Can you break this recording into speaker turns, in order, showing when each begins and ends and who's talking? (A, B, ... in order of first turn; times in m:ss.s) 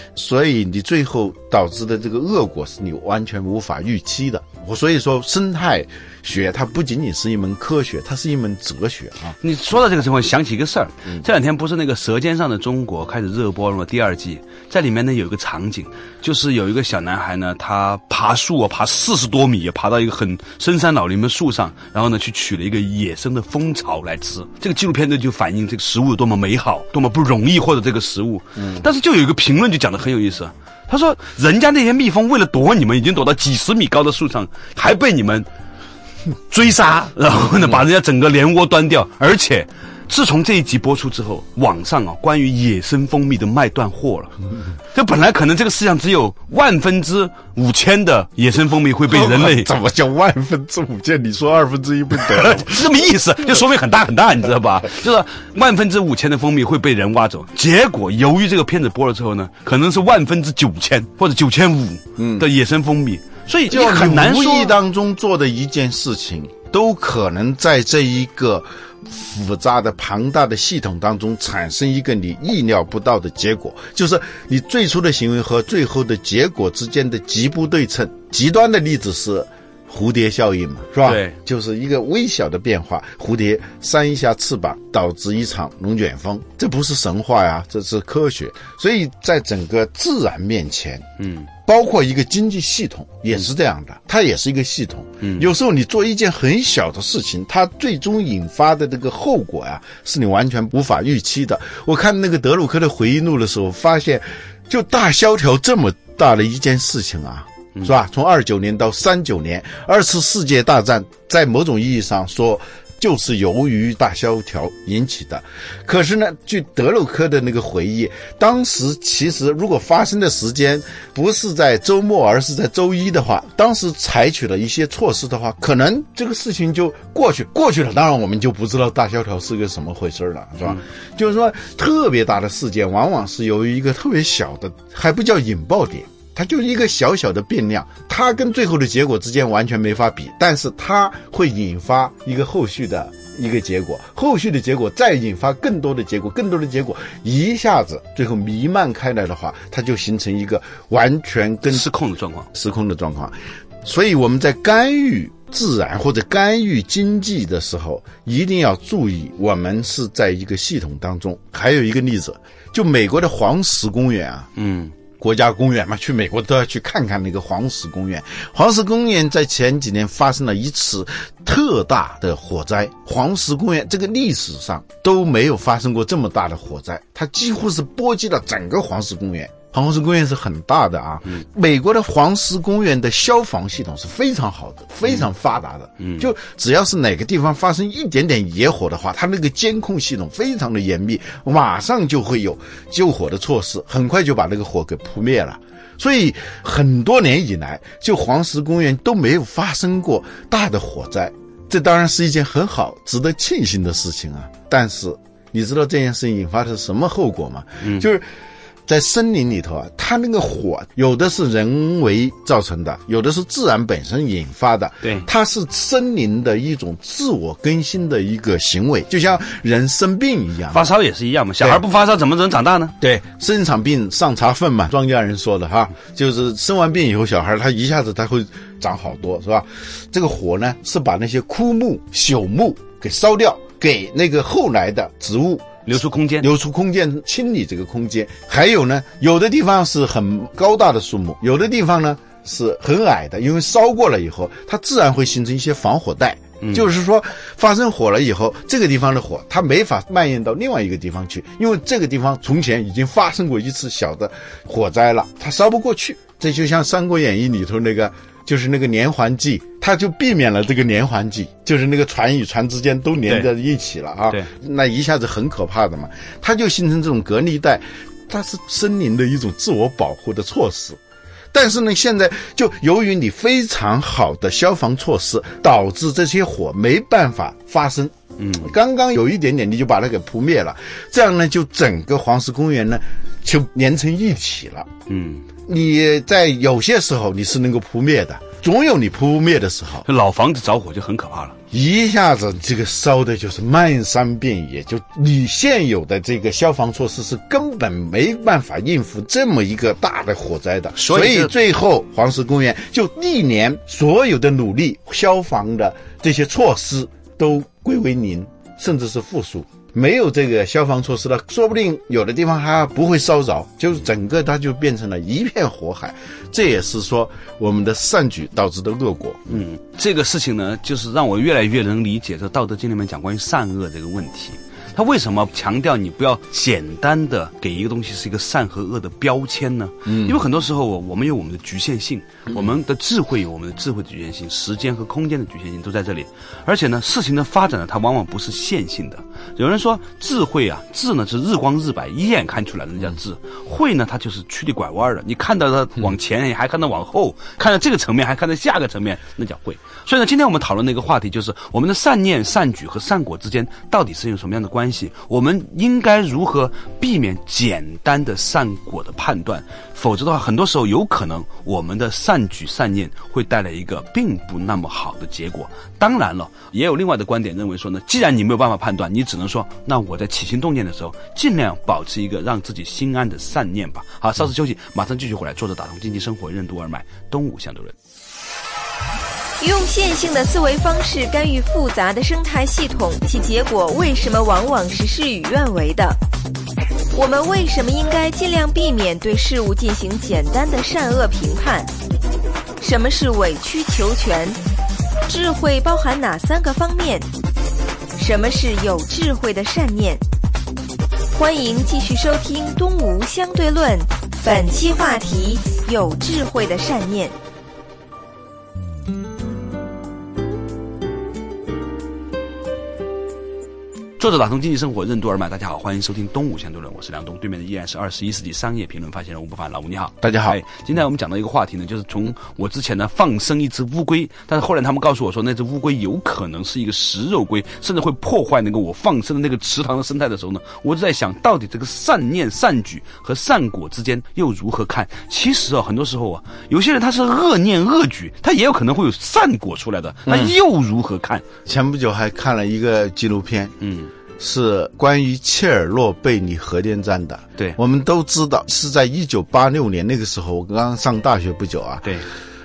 0:00.1-0:09.4 A
0:09.4-0:35.5 B
0:36.5-0:44.4 B
0:44.9-0:49.7 B
0:49.1-0:52.9 A
0:52.2-1:04.8 B
1:02.2-1:02.5 A
1:03.7-1:31.1 A
1:21.0-1:21.4 B
1:31.2-1:31.5 B
1:31.6-2:31.8 A
1:35.2-1:35.5 B
2:31.7-2:32.5 B
2:32.5-2:44.5 A
2:44.6-2:44.9 B
2:45.2-3:28.2 A
3:06.0-3:06.3 B
3:27.8-3:28.1 B
3:28.8-3:40.9 A
3:40.7-3:42.9 B
3:43.0-3:55.8 A
3:55.8-3:56.5 B
3:56.4-4:31.0 A
4:06.6-4:06.9 B
4:31.5-4:44.9 A
4:38.4-4:38.7 B
4:45.1-4:45.5 B
4:45.6-4:50.0 A
4:50.0-4:51.6 B
4:51.7-5:19.6 A
5:01.0-5:01.5 B
5:19.5-6:17.9 B
5:30.0-5:30.4 A
6:19.6-6:26.2 C
6:27.1-6:31.9 C
6:32.8-6:34.6 C
6:35.3-6:37.3 C
6:38.2-6:40.2 C
6:41.3-6:47.3 C
6:54.2-7:21.4 B
7:00.2-7:00.6 A
7:20.3-7:20.5 A
7:21.6-7:23.7 A
7:23.8-7:24.1 B
7:24.4-7:32.2 A